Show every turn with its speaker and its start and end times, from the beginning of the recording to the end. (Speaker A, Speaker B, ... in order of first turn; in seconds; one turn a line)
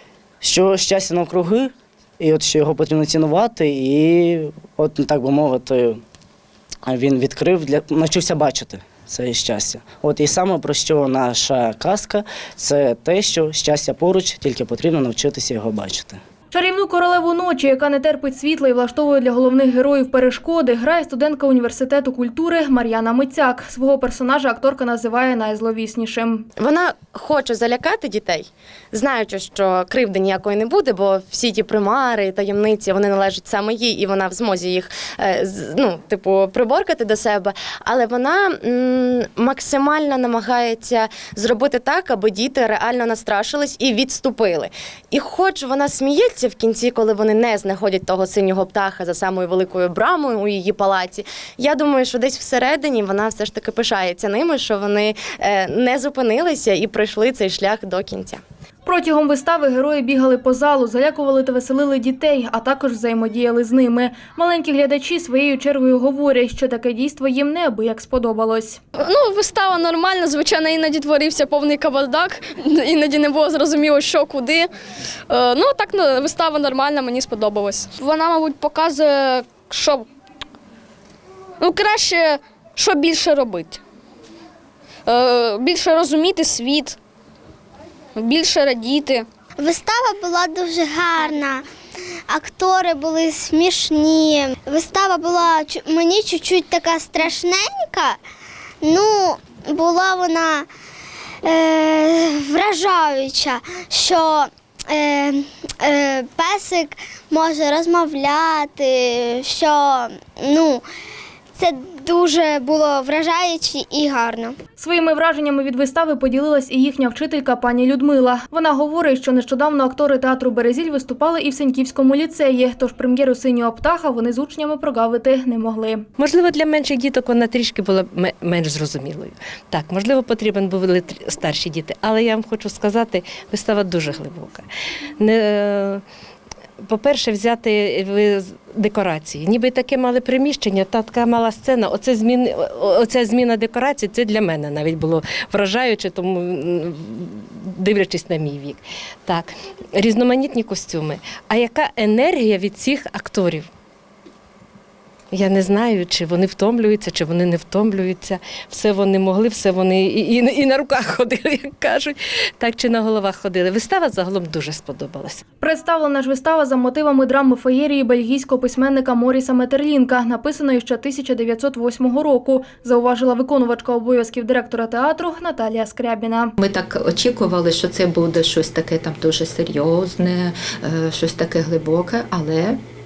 Speaker A: 0.4-6.0
Speaker A: 6.8-16.2
Speaker B: 16.5-26.5
Speaker C: 26.6-58.4
Speaker B: 58.8-68.8
Speaker D: 69.0-74.7
Speaker D: 75.3-80.1
Speaker D: 81.6-83.8
Speaker D: 85.0-87.0
Speaker D: 88.1-89.3
Speaker E: 89.6-91.6
Speaker E: 92.3-98.2
Speaker E: 98.8-100.7
Speaker E: 101.4-110.8
Speaker E: 111.6-114.6
Speaker B: 114.8-126.0
Speaker F: 126.2-134.6
Speaker F: 135.2-136.0
Speaker F: 136.8-153.7
Speaker F: 155.3-165.4
Speaker B: 165.6-176.5
Speaker G: 176.6-182.8